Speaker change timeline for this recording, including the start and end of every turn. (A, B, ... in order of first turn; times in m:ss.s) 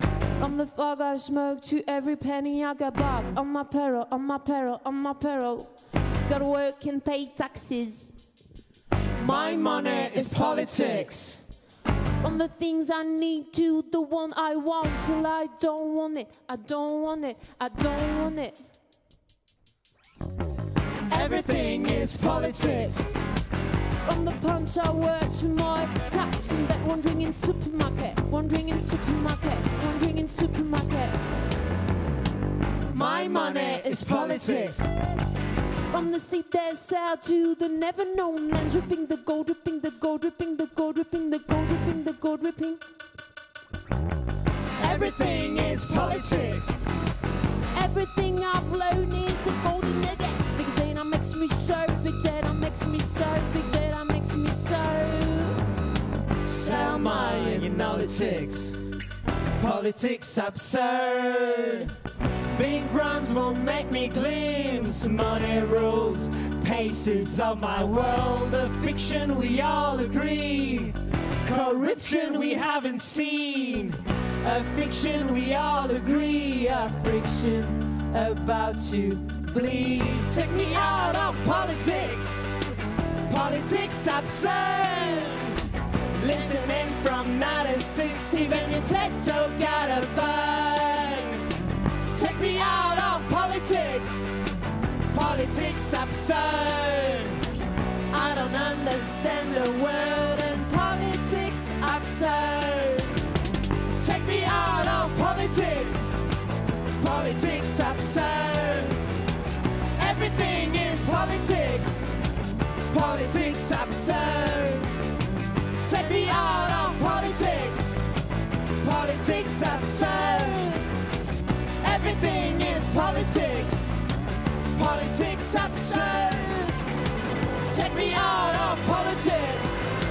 0:00.4-0:08.2 A
0:09.2-0:11.4 B
0:09.2-0:11.2 A
0:12.2-0:18.7 A
0:21.1-0:23.1 B
0:21.4-0:23.0 A
0:24.0-0:31.2 A
0:32.9-0:34.9 B
0:33.2-0:34.9 A
0:35.9-0:42.8 A
0:44.8-0:46.7 B
0:44.8-0:46.9 A
0:47.7-0:55.7 A
0:56.5-0:58.9 B
0:59.6-1:02.0 B
1:02.5-1:22.5 B
1:23.3-1:31.5 B
1:32.1-1:34.2 B
1:35.1-1:37.4 B
1:38.1-1:43.2 B
1:44.0-1:46.1 B
1:47.0-1:49.0 B
1:50.0-1:52.2 B
1:52.9-1:55.0 B
1:55.8-1:58.1 B
1:58.8-2:00.8 B
2:01.8-2:04.0 B
2:04.7-2:06.8 B
2:07.7-2:09.8 B